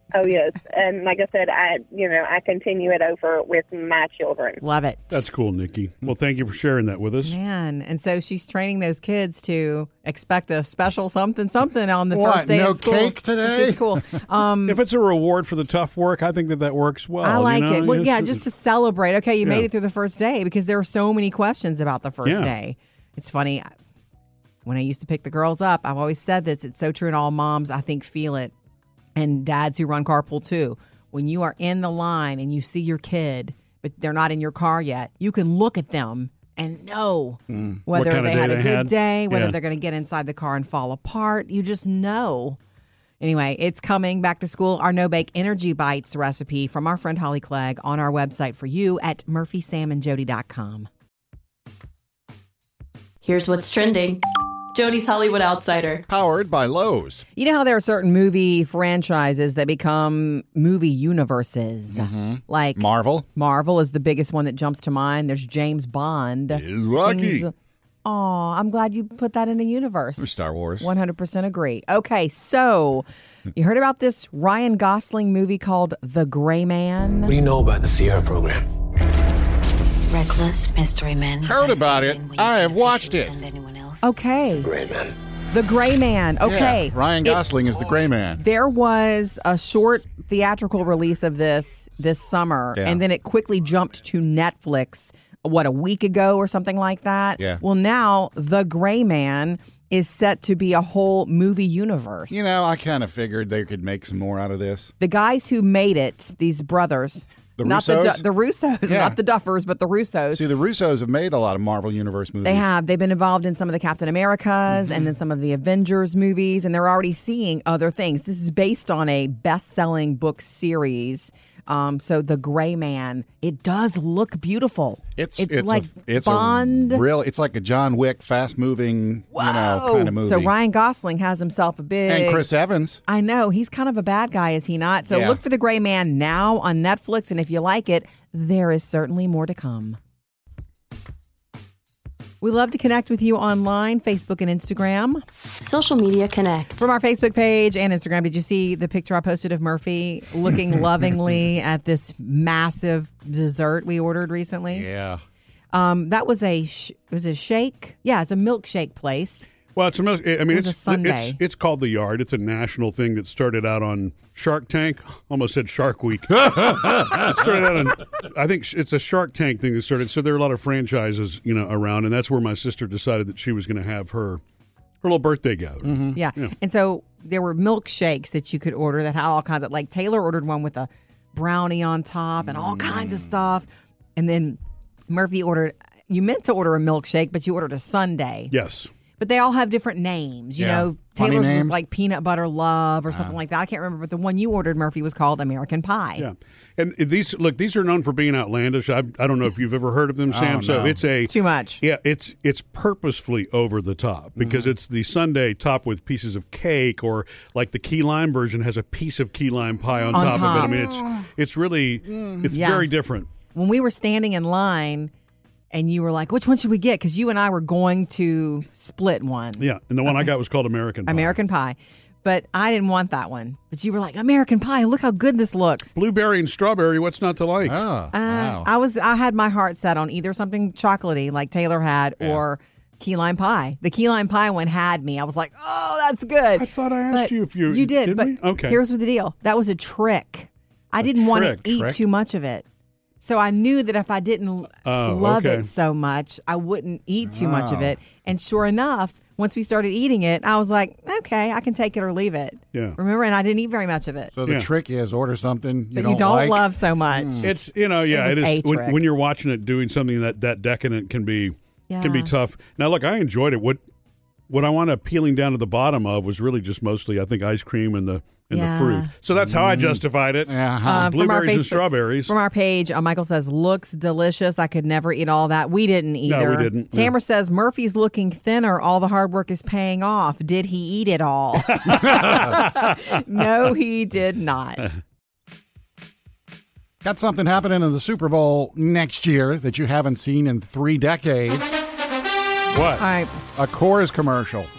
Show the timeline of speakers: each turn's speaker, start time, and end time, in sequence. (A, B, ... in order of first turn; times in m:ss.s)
0:00.1-0:04.6 A
0:04.6-0:05.2 B
0:05.1-0:07.4 C
0:07.2-0:14.8 B
0:12.1-0:14.0 D
0:14.6-0:18.4 C
0:17.2-0:23.7 B
0:22.2-0:22.5 C
0:24.6-0:28.5 B
0:29.2-0:42.6 B
0:37.5-0:37.8 D
0:37.9-0:39.6 C
0:43.2-0:50.9 B
0:53.2-0:54.2 E
0:54.7-0:56.0 E
0:56.1-0:57.2 D
0:57.4-1:02.8 B
1:01.9-1:03.3 D
1:03.4-1:07.5 B
1:06.5-1:07.5 D
1:08.0-1:10.3 B
1:10.2-1:10.9 D
1:10.8-1:17.3 B
1:17.3-1:18.6 F
1:20.1-1:24.0 G
1:21.4-1:23.4 D
1:24.0-1:24.7 B
1:24.6-1:25.2 F
1:25.5-1:27.4 B
1:26.4-1:28.4 D
1:28.4-1:42.5 B
1:32.8-1:33.0 D
1:42.3-1:44.9 D
1:45.0-1:50.4 B
1:47.6-1:48.2 D
1:48.9-1:49.2 D
1:50.3-1:52.7 D
1:52.4-2:07.0 B
1:54.7-1:55.1 D
2:05.2-2:10.5 D
2:09.4-2:12.4 B
2:12.1-2:13.0 D
2:13.1-2:20.0 B
2:15.1-2:15.4 D
2:22.4-2:25.2 B
2:25.6-2:26.8 E
2:26.8-2:34.9 B
2:34.7-2:35.2 D
2:35.7-2:39.5 B
2:39.8-2:54.4 C
2:40.5-2:41.4 B
2:55.0-2:56.5 C
2:55.8-2:56.2 D
2:56.1-3:04.6 B
3:02.4-3:03.3 D
3:05.1-3:08.5 B
3:08.5-3:08.9 C
3:09.2-3:16.2 B
3:10.6-3:11.8 D
3:13.1-3:13.4 D
3:16.2-3:33.3 C
3:20.3-3:21.0 D
3:21.2-3:21.8 B
3:24.4-3:24.7 D
3:30.0-3:31.3 D
3:30.1-3:30.8 B
3:32.0-3:32.5 D
3:32.5-3:32.9 B
3:33.5-3:35.1 B
3:35.7-3:40.3 B
3:39.6-3:41.3 C
3:41.1-3:45.9 B
3:46.0-3:47.8 C
3:47.6-3:48.7 D
3:48.1-4:02.6 B
3:56.6-3:58.8 C
4:01.0-4:01.7 C
4:01.7-4:02.0 D
4:03.2-4:14.4 B
4:04.8-4:05.7 C
4:07.3-4:08.0 D
4:14.4-4:17.5 D
4:15.9-4:17.6 B
4:17.4-4:23.8 C
4:18.1-4:19.0 B
4:21.9-4:22.3 B
4:24.5-4:32.3 C
4:28.5-4:29.1 B
4:29.4-4:31.2 D
4:30.8-4:44.9 B
4:36.3-4:37.1 C
4:41.7-4:43.2 C
4:47.0-4:51.8 D
4:52.7-4:53.0 C
4:53.0-4:53.3 B
4:53.5-4:54.7 D